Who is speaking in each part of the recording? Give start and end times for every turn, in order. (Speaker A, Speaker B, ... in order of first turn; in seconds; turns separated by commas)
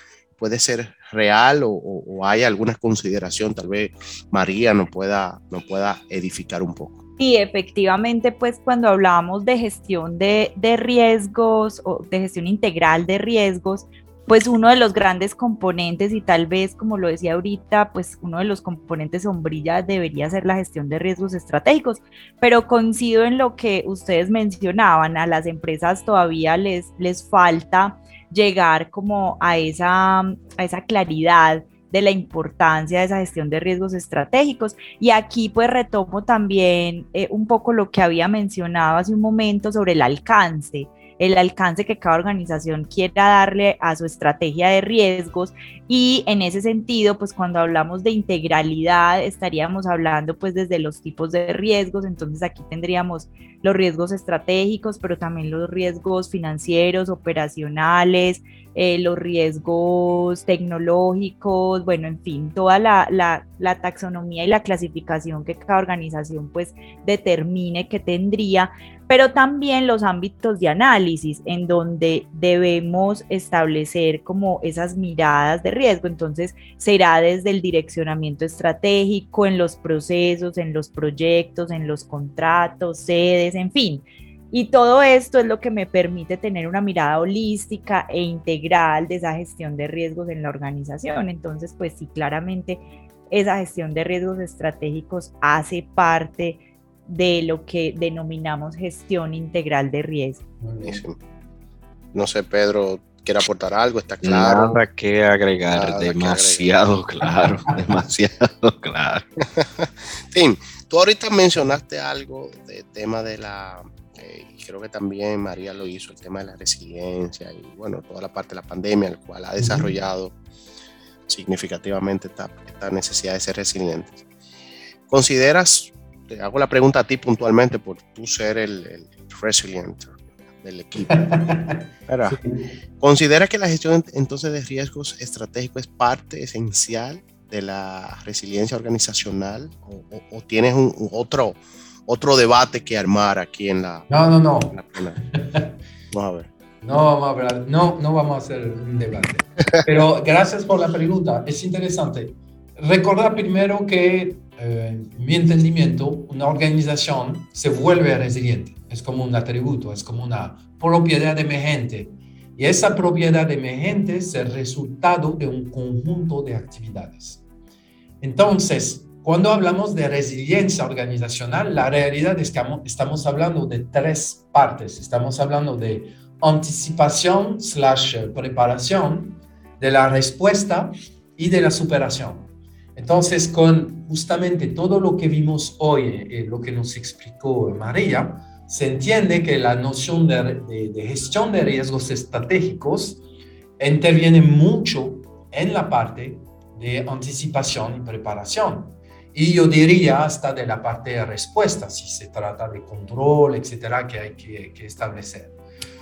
Speaker A: 0.4-7.0, Speaker B: 7.2-100.4, Speaker C: 100.6-101.0, Speaker A: 100.8-101.2, Speaker A: 102.1-104.8, Speaker D: 104.2-109.2, Speaker A: 105.7-106.7, Speaker A: 109.4-120.3, Speaker C: 119.6-119.9, Speaker A: 121.3-124.2, Speaker A: 125.1-131.2, Speaker C: 131.1-132.6, Speaker A: 132.1-132.4, Speaker A: 133.0-144.1, Speaker C: 144.1-144.8, Speaker A: 144.7-145.2, Speaker C: 145.3-145.7, Speaker A: 146.1-146.5, Speaker C: 146.8-167.4, Speaker C: 168.2-193.2, Speaker C: 193.8-205.5